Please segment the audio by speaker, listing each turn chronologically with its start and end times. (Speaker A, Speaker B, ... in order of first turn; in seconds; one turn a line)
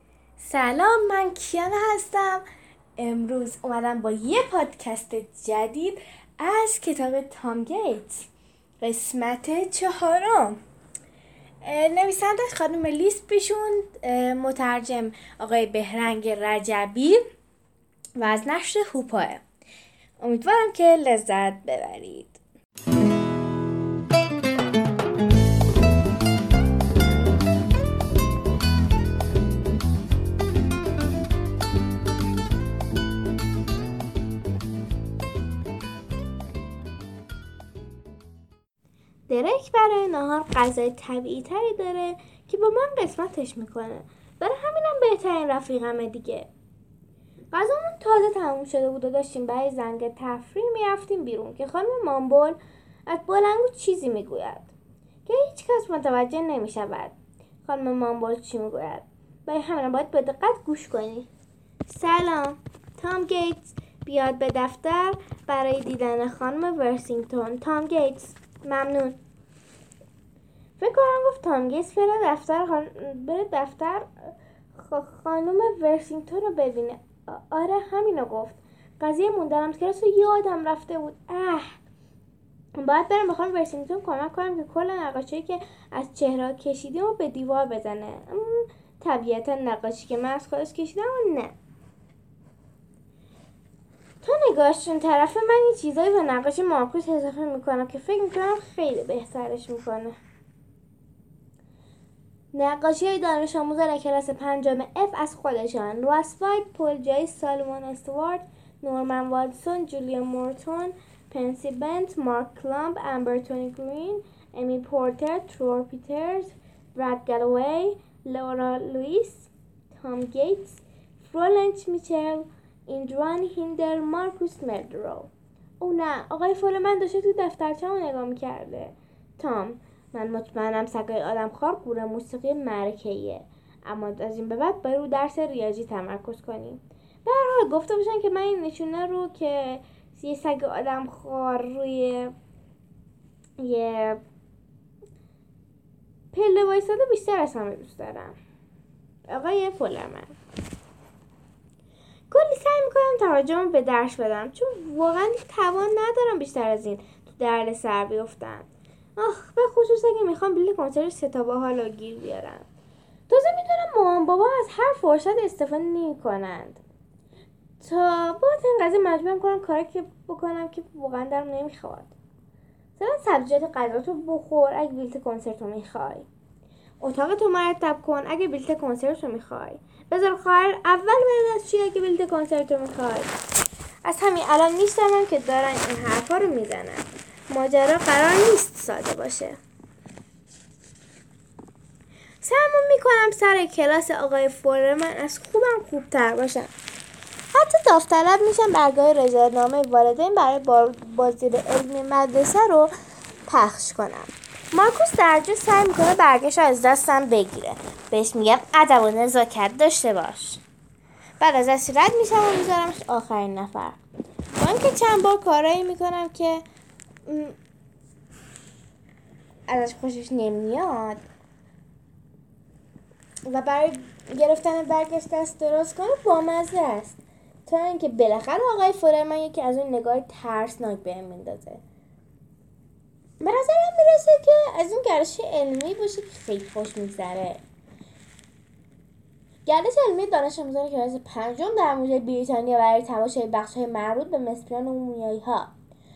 Speaker A: 0.4-2.4
Speaker A: 3.0-8.3
Speaker A: 8.8-10.6
Speaker A: 11.6-17.2
Speaker A: 18.2-19.4
Speaker A: 20.2-22.4
Speaker A: 39.3-46.5
Speaker A: 47.5-54.7
Speaker A: 55.2-57.1
Speaker A: 57.6-61.3
Speaker A: 61.9-69.2
Speaker A: 70.8-81.8
Speaker A: 82.8-91.5
Speaker A: 94.2-100.2
Speaker A: 102.5-142.3
Speaker A: 143.6-144.2
Speaker A: 146.3-148.4
Speaker A: 149.3-150.3
Speaker A: 152.3-162.6
Speaker A: 163.3-166.8
Speaker A: 167.8-172.1
Speaker A: 173.0-176.3
Speaker A: 177.0-183.3
Speaker A: 184.1-189.6
Speaker A: 192.4-196.7
Speaker A: 197.5-202.9
Speaker A: 203.5-210.6
Speaker A: 211.4-214.0
Speaker A: 214.6-216.6
Speaker A: 217.3-217.6
Speaker A: 219.7-221.2
Speaker A: 223.5-231.8
Speaker A: 233.4-237.6
Speaker A: 239.7-245.7